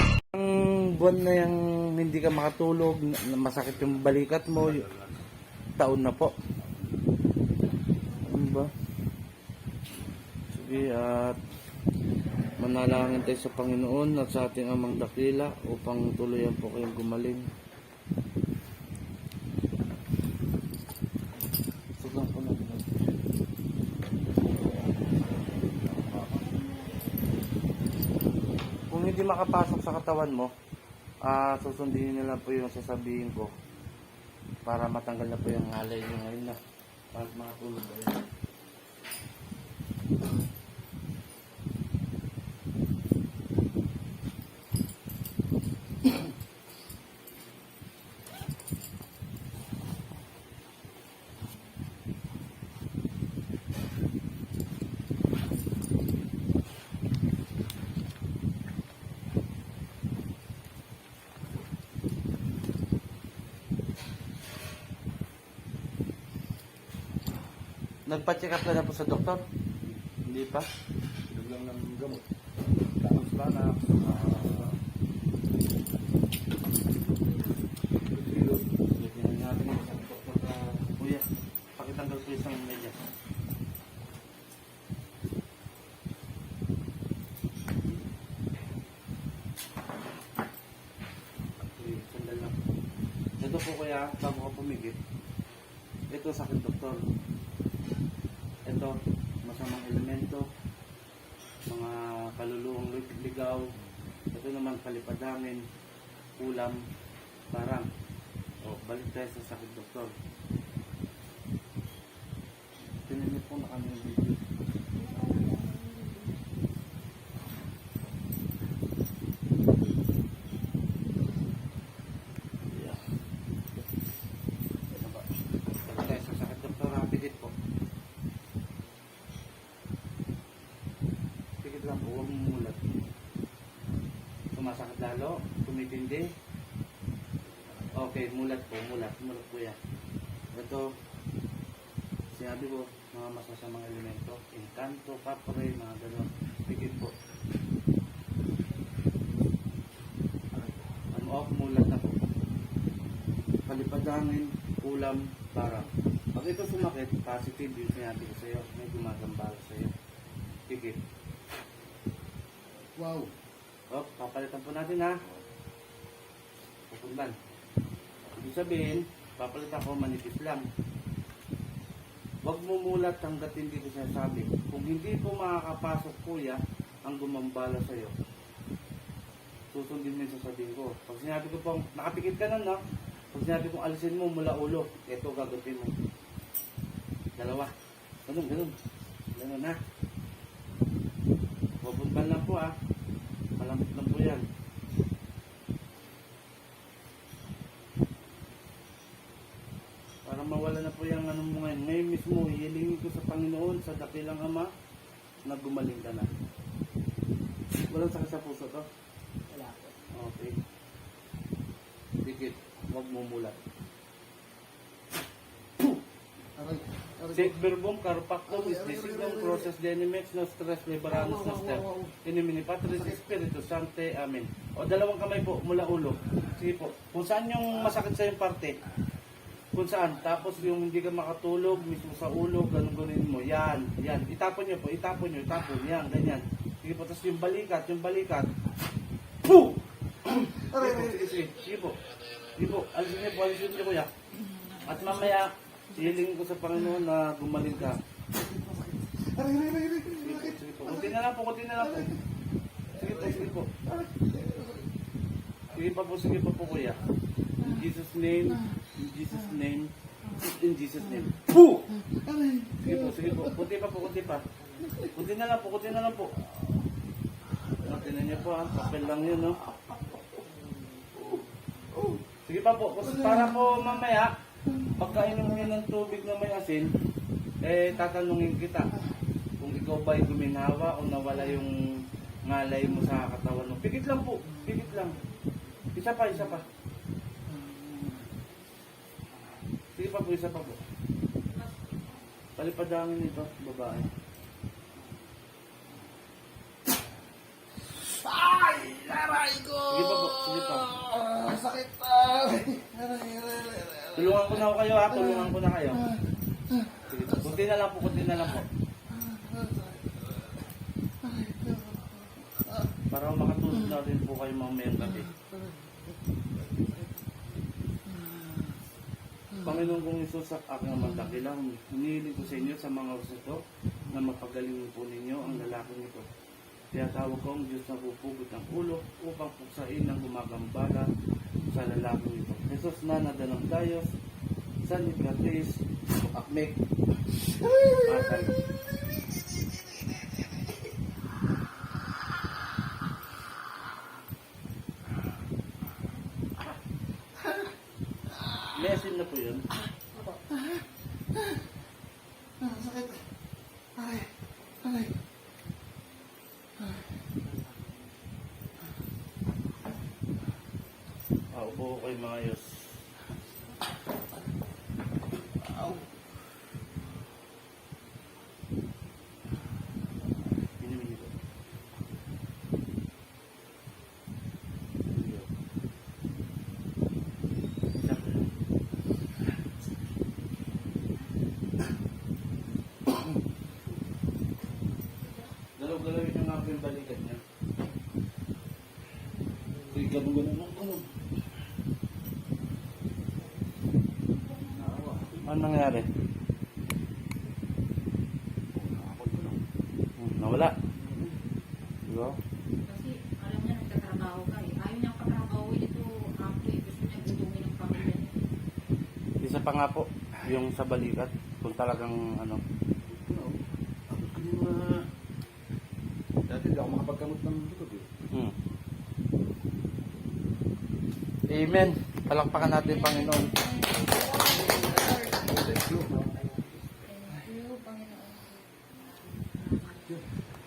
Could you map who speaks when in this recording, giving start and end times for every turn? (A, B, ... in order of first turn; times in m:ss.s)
0:00.3-0:04.9 A
0:05.8-0:06.3 A
0:08.2-0:08.7 A
0:10.5-0:11.4 A
0:12.6-0:17.5 A
0:22.0-0:22.9 A
0:28.9-0:30.5 A
0:31.2-0:33.5 A
0:34.6-0:36.6 A
0:37.1-0:38.2 A
1:08.0-1:09.4 A
1:10.2-1:10.7 A
1:11.3-1:12.2 B
1:13.0-1:14.7 B
1:13.4-1:14.7 A
1:18.1-1:18.6 B
1:18.9-1:21.2 A
1:21.8-1:23.0 A
1:31.8-1:32.6 A
1:33.4-1:35.0 A
1:36.1-1:37.0 A
1:38.6-1:40.5 A
1:41.7-1:43.7 A
1:44.3-1:45.6 A
1:46.4-1:46.8 A
1:47.5-1:47.9 A
1:48.6-1:50.1 A
1:53.0-1:54.4 A
1:55.0-1:56.5 C
2:02.7-2:03.0 A
2:04.9-2:07.5 A
2:11.6-2:12.8 A
2:14.5-2:16.3 A
2:18.0-2:19.8 A
2:20.5-2:20.9 A
2:22.3-2:27.1 A
2:31.1-2:32.2 A
2:33.7-2:39.9 A
2:40.7-2:41.0 A
2:43.0-2:43.3 B
2:43.9-2:45.2 A
2:46.9-2:47.3 A
2:48.4-2:50.6 A
2:52.4-2:58.2 A
2:59.7-3:02.8 A
3:03.3-3:05.9 A
3:07.4-3:07.7 A
3:08.2-3:08.7 A
3:09.3-3:09.8 A
3:11.8-3:12.7 A
3:13.6-3:14.4 A
3:20.2-3:24.7 A
3:25.4-3:26.3 A
3:27.9-3:28.9 A
3:29.5-3:29.9 B
3:30.1-3:30.6 A
3:32.2-3:33.6 A
3:36.6-3:37.5 B
3:37.3-3:48.8 A
3:38.6-3:39.6 B
3:41.4-3:42.1 B
3:49.7-3:58.5 A
3:59.4-4:02.0 A
4:02.6-4:04.1 A
4:04.8-4:08.0 A
4:08.4-4:10.4 B
4:10.2-4:12.1 A
4:12.9-4:13.7 A
4:14.2-4:14.7 B
4:15.7-4:17.0 A
4:17.6-4:22.0 A
4:22.2-4:22.9 B
4:22.8-4:24.4 A
4:25.0-4:26.4 A
4:27.8-4:29.6 A
4:29.8-4:31.4 B
4:32.4-4:36.9 A
4:37.6-4:38.9 A
4:39.6-4:45.2 A
4:45.9-4:46.6 A
4:47.6-4:48.1 B
4:49.9-4:50.8 A
4:51.5-4:52.0 C
4:52.6-4:54.1 A
4:58.2-4:59.8 B
4:59.8-5:01.0 A
5:01.0-5:04.1 B
5:04.1-5:06.1 A
5:07.0-5:08.7 A
5:09.4-5:09.9 B
5:11.4-5:12.0 B
5:13.1-5:15.3 A
5:19.6-5:26.3 A
5:26.9-5:31.1 A
5:31.7-5:34.1 A
5:34.8-5:36.8 A
5:37.8-5:38.6 A
5:48.7-5:49.7 A
5:52.7-5:53.0 B
6:01.5-6:03.0 A
6:10.7-6:11.3 A
6:15.1-6:15.5 A
6:18.0-6:18.4 A
6:25.8-6:27.4 A
6:29.9-6:31.1 A
6:34.8-6:35.4 B
6:35.3-6:36.1 A
6:38.7-6:39.6 B
6:40.2-6:40.8 A
6:42.0-6:42.4 A
6:42.8-6:48.3 C
6:49.4-6:52.6 A
6:53.1-6:55.1 B
6:56.5-6:58.1 B
6:58.3-6:58.6 A
7:01.5-7:03.6 A
7:03.3-7:05.0 C
7:04.5-7:06.7 B
7:07.1-7:08.6 C
7:09.5-7:10.1 C